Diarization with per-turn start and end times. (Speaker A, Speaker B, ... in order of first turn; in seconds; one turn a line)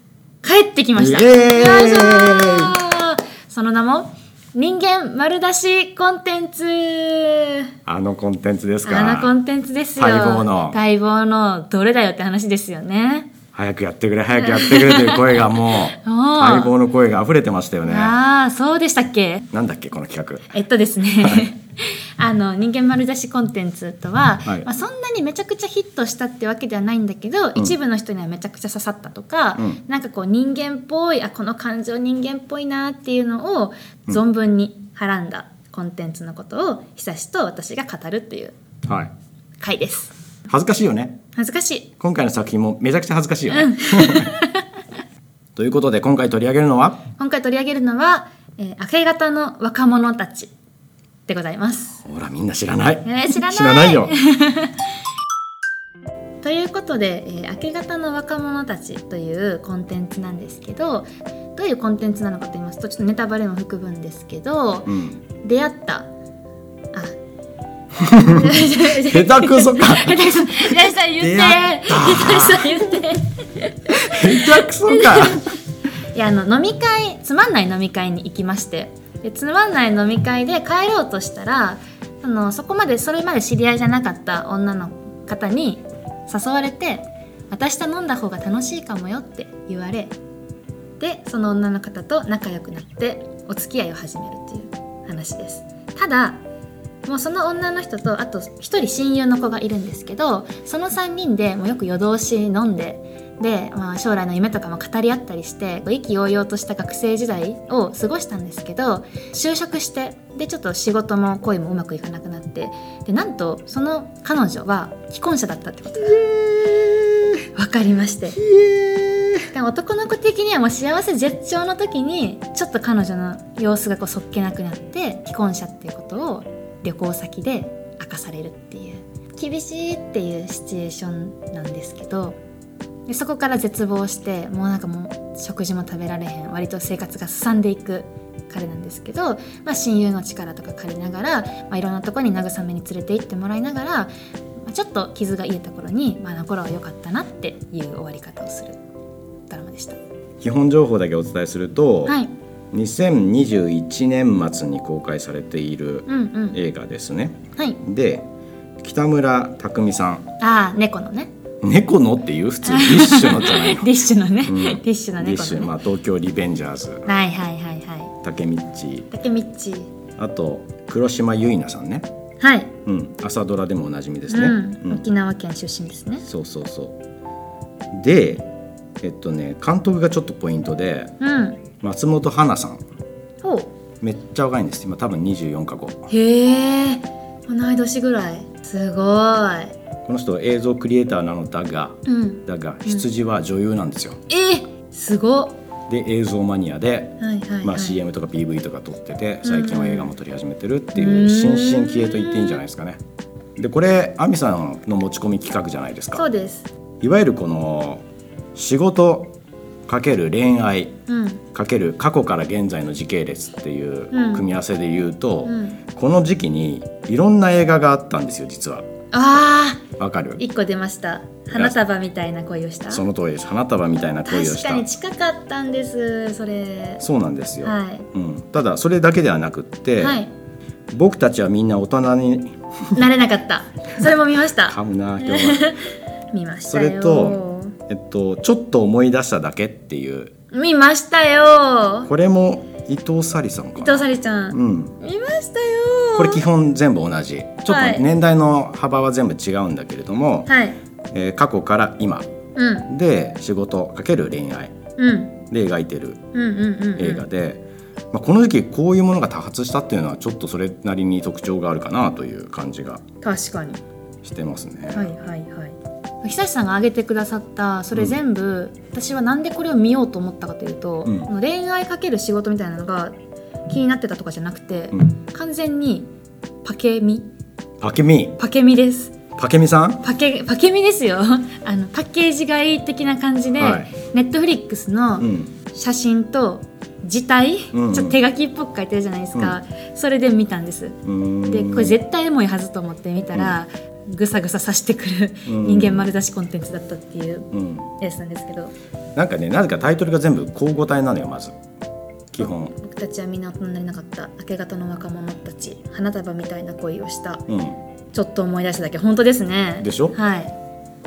Speaker A: 0.4-7.7
Speaker B: 0.9-2.8
Speaker B: 7.8-9.3
Speaker A: 8.8-13.3
Speaker B: 10.0-10.8
Speaker B: 13.5-18.1
Speaker A: 14.3-16.7
Speaker A: 17.9-19.4
Speaker B: 19.5-20.5
Speaker A: 20.5-38.5
Speaker B: 21.2-21.5
Speaker B: 38.9-39.1
Speaker A: 39.6-40.1
Speaker B: 40.5-41.2
Speaker A: 41.3-41.9
Speaker B: 42.0-44.3
Speaker A: 43.5-44.6
Speaker B: 45.5-47.0
Speaker A: 47.2-50.5
Speaker A: 51.3-52.0
Speaker B: 52.0-54.1
Speaker A: 53.0-54.8
Speaker A: 56.4-66.1
Speaker B: 64.9-65.1
Speaker B: 68.0-73.0
Speaker A: 68.0-75.4
Speaker B: 73.9-75.5
Speaker A: 76.1-90.1
Speaker A: 91.0-96.4
Speaker A: 97.0-116.3
Speaker B: 116.1-117.3
Speaker A: 117.5-118.4
Speaker B: 118.3-119.5
Speaker A: 119.5-132.4
Speaker A: 133.1-144.1
Speaker A: 144.7-148.8
Speaker A: 149.5-150.0
Speaker B: 150.4-152.2
Speaker A: 152.1-152.3
Speaker B: 152.7-158.3
Speaker A: 156.1-156.6
Speaker B: 158.8-160.2
Speaker A: 160.4-161.3
Speaker B: 161.6-163.9
Speaker A: 162.6-165.7
Speaker B: 164.4-167.1
Speaker A: 167.1-168.1
Speaker B: 168.2-169.1
Speaker A: 169.1-169.9
Speaker B: 170.2-172.1
Speaker A: 172.4-172.7
Speaker B: 172.8-175.0
Speaker A: 174.3-176.2
Speaker B: 176.2-177.0
Speaker B: 177.9-178.5
Speaker B: 179.0-181.1
Speaker A: 181.2-181.6
Speaker B: 181.8-182.8
Speaker A: 183.4-183.7
Speaker B: 184.0-186.1
Speaker A: 186.1-189.7
Speaker B: 190.0-194.2
Speaker A: 192.1-193.0
Speaker A: 194.3-195.6
Speaker B: 195.9-203.0
Speaker A: 197.2-198.0
Speaker A: 199.4-200.1
Speaker A: 200.9-202.6
Speaker B: 203.6-206.2
Speaker A: 206.1-206.7
Speaker B: 207.0-208.0
Speaker B: 208.5-209.3
Speaker B: 209.9-210.9
Speaker A: 211.1-211.4
Speaker B: 211.5-218.9
Speaker A: 214.1-214.4
Speaker A: 215.4-215.8
Speaker A: 219.1-219.8
Speaker B: 220.0-220.4
Speaker A: 220.4-223.0
Speaker B: 222.9-224.9
Speaker A: 224.2-227.0
Speaker B: 227.0-230.2
Speaker A: 227.6-228.1
Speaker A: 230.0-230.3
Speaker B: 230.9-232.6
Speaker A: 232.9-237.8
Speaker B: 234.7-235.7
Speaker B: 236.7-240.3
Speaker A: 240.5-242.1
Speaker B: 242.1-244.9
Speaker A: 243.8-246.4
Speaker B: 246.1-250.5
Speaker A: 247.7-248.1
Speaker A: 250.5-250.8
Speaker B: 251.1-252.3
Speaker A: 252.6-252.9
Speaker B: 252.9-254.7
Speaker A: 255.0-255.3
Speaker B: 255.5-256.2
Speaker A: 256.3-257.2
Speaker B: 257.0-263.0
Speaker A: 263.2-263.8
Speaker B: 264.2-265.1
Speaker A: 264.9-273.1
Speaker A: 273.7-276.1
Speaker A: 276.6-277.3
Speaker B: 277.8-278.4
Speaker A: 278.4-279.1
Speaker B: 279.4-280.0
Speaker A: 280.0-298.7
Speaker B: 283.6-283.9
Speaker B: 285.2-285.5
Speaker B: 287.7-288.2
Speaker B: 291.0-292.0
Speaker B: 295.4-296.1
Speaker B: 297.5-297.9
Speaker B: 299.1-301.5
Speaker B: 302.3-302.7
Speaker A: 302.4-307.4
Speaker B: 307.5-307.8
Speaker A: 308.1-310.5
Speaker B: 309.8-310.2